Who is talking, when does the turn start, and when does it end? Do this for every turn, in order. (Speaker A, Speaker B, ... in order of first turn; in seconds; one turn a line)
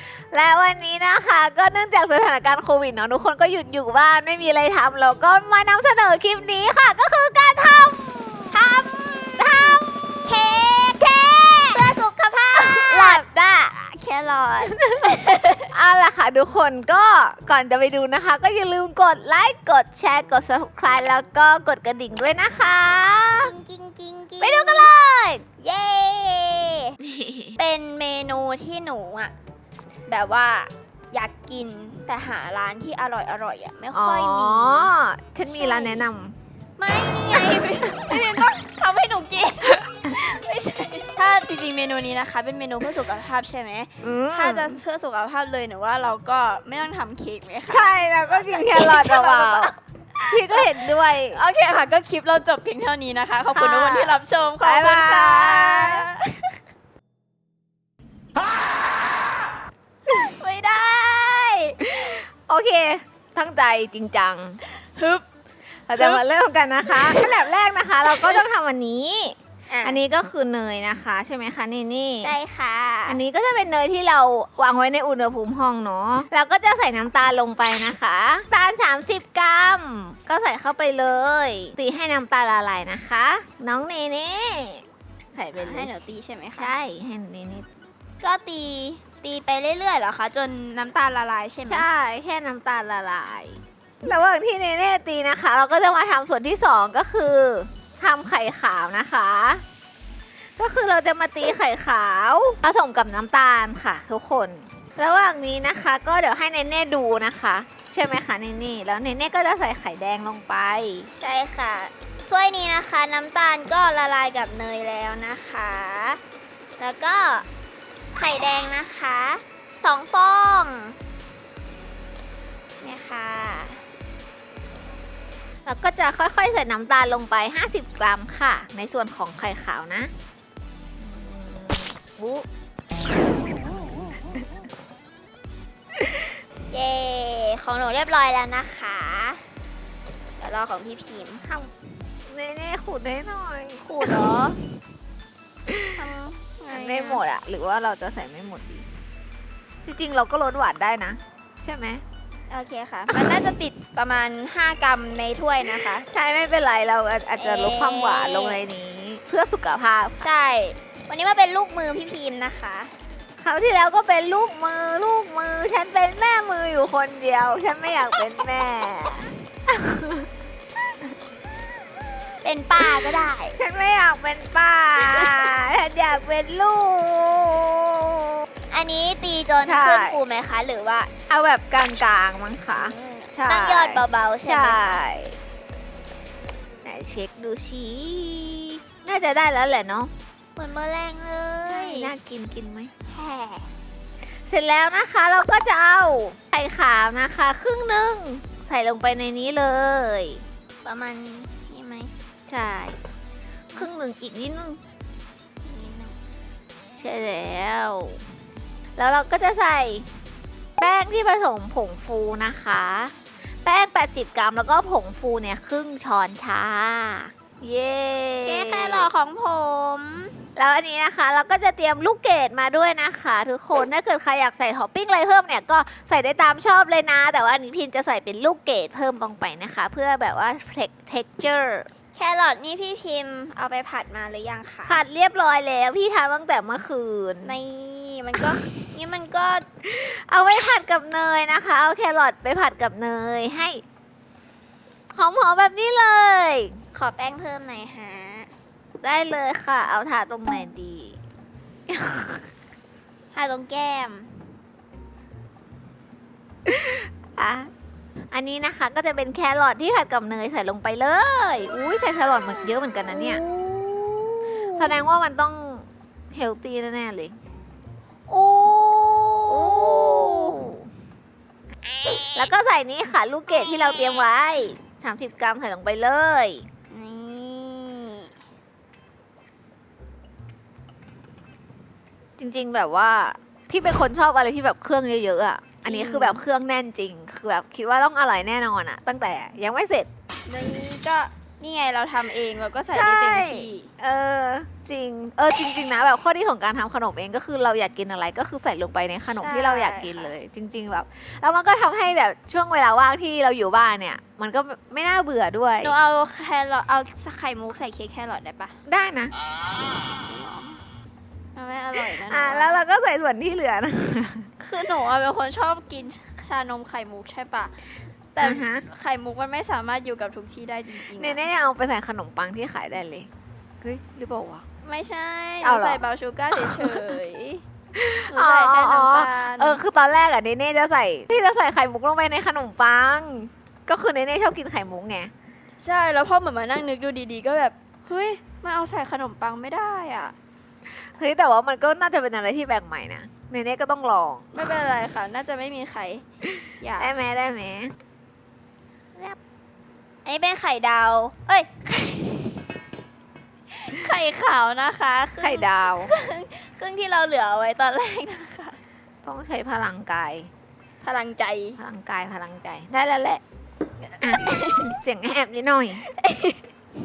Speaker A: 0.3-8.6
Speaker B: 8.5-10.5
Speaker A: 9.4-11.9
Speaker B: 11.7-15.7
Speaker A: 12.5-13.7
Speaker A: 14.6-23.5
Speaker B: 23.4-24.9
Speaker A: 24.4-25.4
Speaker B: 25.6-26.9
Speaker A: 27.0-27.6
Speaker B: 27.6-29.3
Speaker B: 30.1-34.9
Speaker A: 33.9-36.4
Speaker B: 35.4-36.1
Speaker B: 36.8-56.5
Speaker A: 37.3-38.4
Speaker A: 44.0-44.8
Speaker A: 47.7-49.7
Speaker A: 50.3-51.4
Speaker A: 53.5-56.0
Speaker B: 60.1-62.1
Speaker A: 62.0-64.6
Speaker B: 64.7-65.2
Speaker A: 65.9-72.3
Speaker B: 65.9-66.2
Speaker B: 66.9-67.4
Speaker B: 68.0-68.4
Speaker B: 69.7-70.0
Speaker B: 72.2-73.2
Speaker A: 73.1-85.9
Speaker B: 85.5-86.7
Speaker A: 86.6-87.7
Speaker B: 88.2-91.8
Speaker A: 91.7-99.6
Speaker A: 100.6-111.1
Speaker B: 111.2-116.2
Speaker B: 116.8-117.5
Speaker B: 118.1-121.0
Speaker B: 122.8-123.8
Speaker A: 125.7-130.1
Speaker A: 131.0-132.4
Speaker A: 136.0-136.2
Speaker B: 136.7-139.5
Speaker B: 140.4-141.4
Speaker A: 141.4-141.7
Speaker A: 142.2-144.2
Speaker B: 143.8-144.6
Speaker A: 145.7-146.0
Speaker B: 146.0-147.2
Speaker A: 146.7-148.9
Speaker A: 149.8-152.0
Speaker B: 152.5-156.0
Speaker A: 153.1-153.4
Speaker A: 155.7-160.3
Speaker B: 157.4-158.6
Speaker B: 160.2-162.9
Speaker A: 163.4-170.3
Speaker B: 172.4-173.6
Speaker A: 172.8-178.3
Speaker B: 178.7-181.1
Speaker A: 179.6-180.2
Speaker A: 181.3-185.4
Speaker B: 182.8-185.0
Speaker A: 186.8-190.1
Speaker B: 190.6-192.1
Speaker A: 191.7-192.9
Speaker B: 193.1-193.7
Speaker A: 194.4-200.4
Speaker B: 200.8-202.1
Speaker A: 202.5-203.0
Speaker A: 203.7-204.8
Speaker B: 205.6-206.2
Speaker A: 206.9-208.2
Speaker A: 208.9-210.1
Speaker A: 210.8-213.1
Speaker A: 213.6-219.1
Speaker B: 218.4-220.4
Speaker A: 220.6-231.9
Speaker B: 232.1-235.0
Speaker A: 234.8-237.6
Speaker B: 237.4-239.7
Speaker A: 239.8-243.8
Speaker A: 245.1-246.8
Speaker B: 246.9-248.5
Speaker A: 249.0-251.2
Speaker A: 251.9-252.4
Speaker B: 253.3-254.5
Speaker A: 256.6-257.7
Speaker A: 258.3-263.4
Speaker B: 262.8-265.0
Speaker A: 264.7-267.4
Speaker B: 268.3-270.6
Speaker A: 269.5-270.8
Speaker B: 272.0-272.5
Speaker A: 272.3-276.7
Speaker B: 273.5-274.2
Speaker B: 276.9-278.3
Speaker A: 282.4-290.1
Speaker B: 285.8-286.4
Speaker B: 290.4-293.9
Speaker A: 292.9-305.9
Speaker B: 299.3-300.3
Speaker B: 305.8-308.8
Speaker A: 308.9-309.3
Speaker B: 310.0-310.8
Speaker B: 311.5-312.8
Speaker A: 311.9-314.5
Speaker B: 314.6-317.7
Speaker B: 318.3-321.5
Speaker A: 318.4-318.9
Speaker A: 321.1-323.3
Speaker A: 323.8-324.6
Speaker B: 324.8-327.6
Speaker A: 325.6-326.0
Speaker A: 326.5-327.1
Speaker A: 327.9-335.3
Speaker B: 328.3-329.8
Speaker B: 335.8-340.3
Speaker A: 341.0-344.5
Speaker B: 344.5-346.2
Speaker A: 346.6-347.9
Speaker B: 346.8-347.1
Speaker B: 350.2-352.6
Speaker B: 353.7-358.8
Speaker A: 355.4-356.1
Speaker A: 359.2-360.5
Speaker B: 361.0-361.8
Speaker A: 361.8-363.4
Speaker B: 364.1-364.9
Speaker A: 364.2-366.0
Speaker B: 366.0-366.6